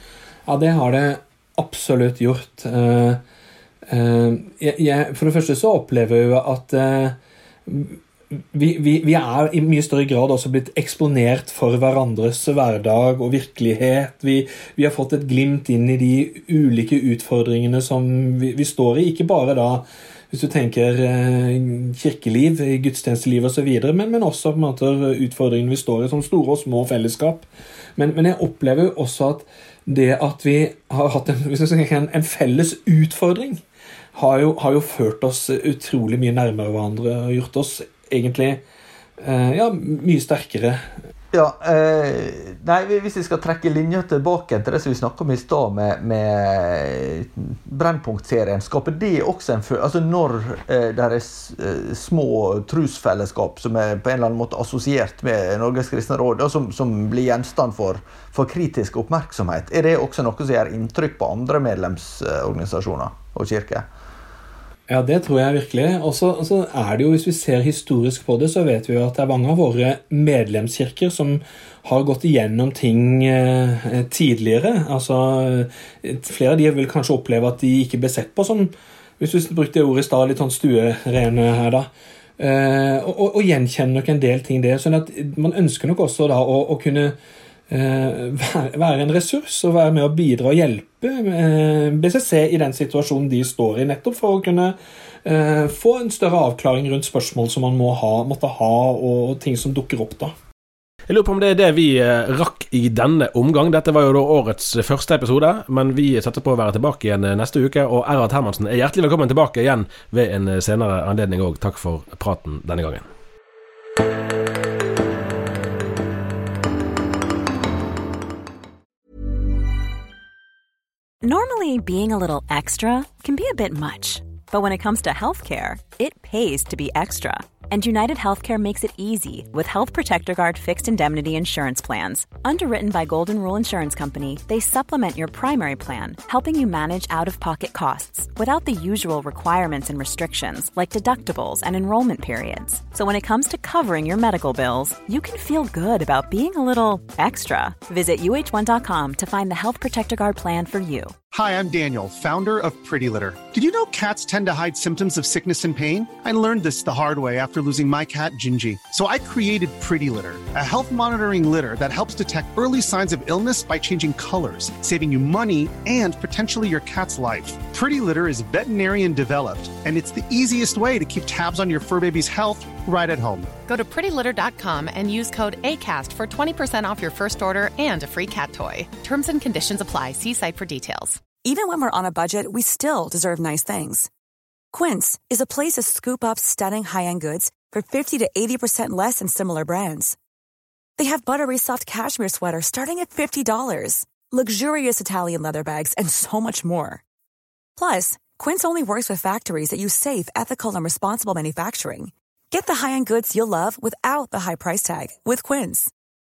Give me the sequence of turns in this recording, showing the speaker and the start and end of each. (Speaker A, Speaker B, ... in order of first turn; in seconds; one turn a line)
Speaker A: 0.5-3.2
Speaker A: 3.9-33.6
Speaker A: 34.1-38.6
Speaker A: 39.2-40.9
Speaker B: 41.3-63.9
Speaker A: 64.9-81.9
Speaker A: 82.4-87.2
Speaker A: 87.7-100.3
Speaker C: 101.1-113.0
Speaker D: 121.2-151.1
Speaker E: 151.3-173.5
Speaker F: 173.7-181.2
Speaker G: 181.4-184.1
Speaker G: 184.7-190.2
Speaker G: 191.0-197.0
Speaker G: 197.8-205.9